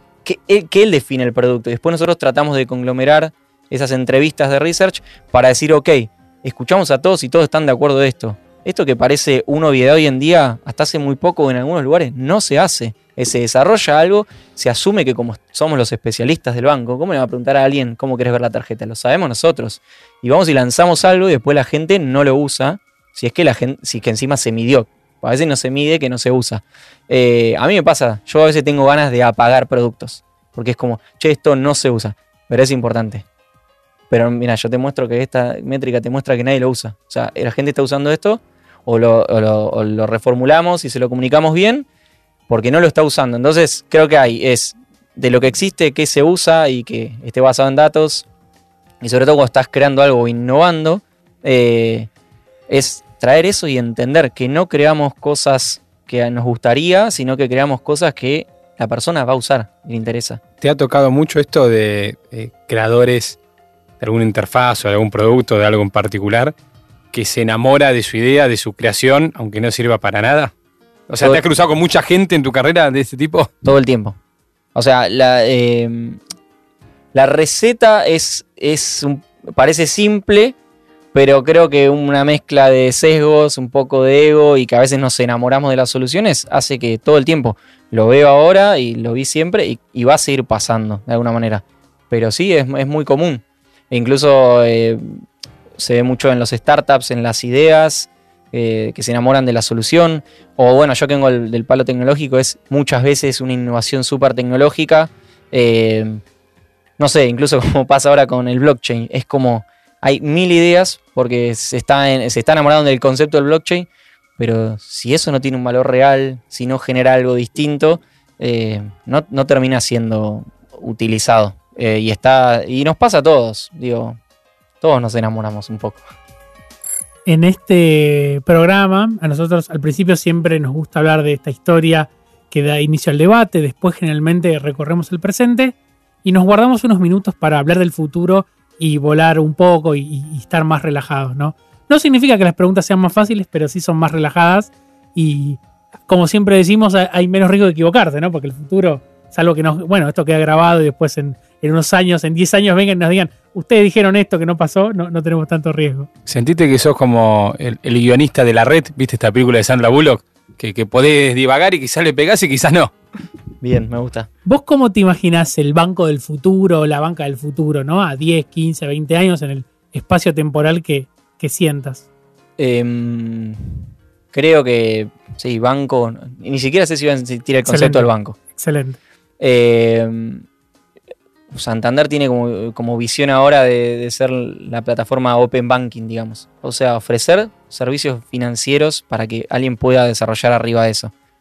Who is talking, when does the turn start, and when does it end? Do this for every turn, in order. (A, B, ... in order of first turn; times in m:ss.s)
0:00.2-0:33.2 A
0:34.1-0:41.9 A
0:42.5-0:48.3 A
0:49.0-0:52.1 A
0:52.7-1:00.4 A
1:00.6-1:03.4 B
1:04.0-1:06.5 B
1:07.1-1:10.5 B
1:11.1-1:13.5 B
1:13.6-1:14.2 A
1:14.8-1:16.2 A
1:17.1-1:20.6 A
1:21.1-1:35.2 A
1:35.8-1:46.2 A
1:47.0-2:04.2 A
2:04.8-2:06.0 A
2:07.3-2:36.1 C
2:36.3-2:42.9 B
2:43.6-2:44.3 A
2:44.4-2:52.0 C
2:52.6-2:58.4 A
2:57.7-2:59.0 C
2:59.4-3:00.4 A
3:01.5-3:11.1 A